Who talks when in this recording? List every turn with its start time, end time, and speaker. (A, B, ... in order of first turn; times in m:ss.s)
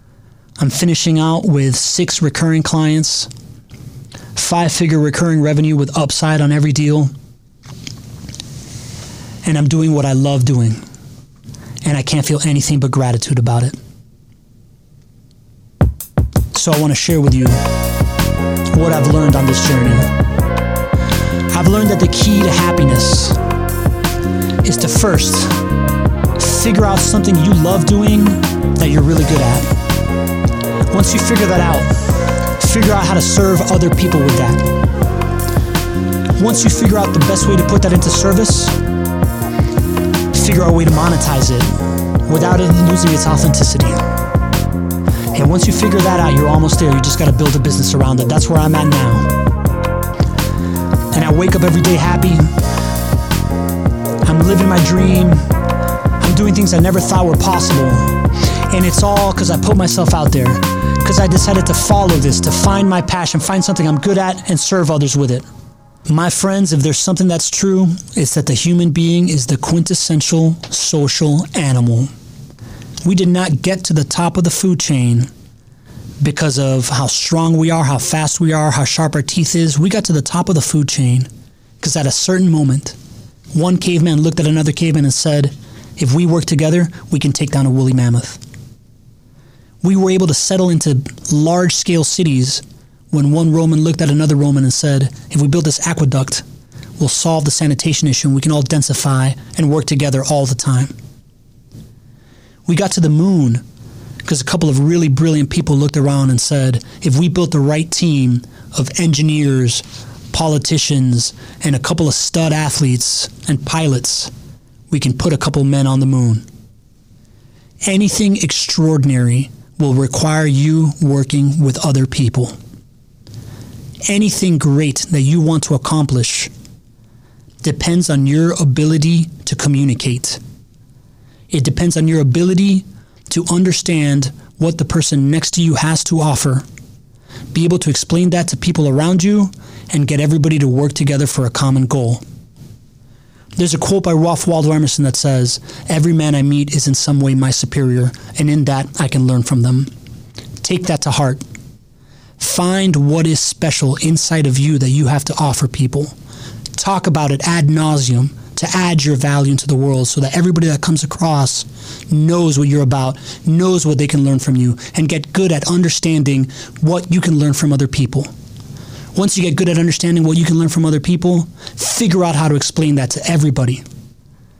0:00.6-0:03.3 A
0:04.3-0:07.1 A
0:09.4-0:10.8 A
0:11.8-0:13.8 A
0:16.5-0:17.6 A
0:18.7-0:20.1 A
0:21.5-0:23.4 A
0:24.6-0:25.6 A
0:26.3-0:29.8 A
0:30.9-0:34.6 A
0:36.4-0:38.8 A
0:40.3-0:44.1 A
0:45.3-0:49.3 A
0:51.1-0:52.5 A
0:54.2-0:55.5 A
0:56.2-1:05.5 A
1:06.1-1:12.1 A
1:13.0-1:15.3 A
1:16.2-1:21.3 A
1:21.8-1:23.0 A
1:23.5-1:28.4 A
1:29.8-1:36.4 A
1:37.0-1:40.9 A
1:42.6-1:43.6 A
1:44.2-1:54.3 A
1:54.9-1:56.4 A
1:57.9-2:02.6 A
2:04.0-2:06.5 A
2:07.6-2:10.4 A
2:11.5-2:16.6 A
2:17.5-2:22.2 A
2:23.6-2:29.9 A
2:30.6-2:31.4 A
2:32.4-2:36.1 A
2:36.7-2:48.3 A
2:49.1-2:53.8 A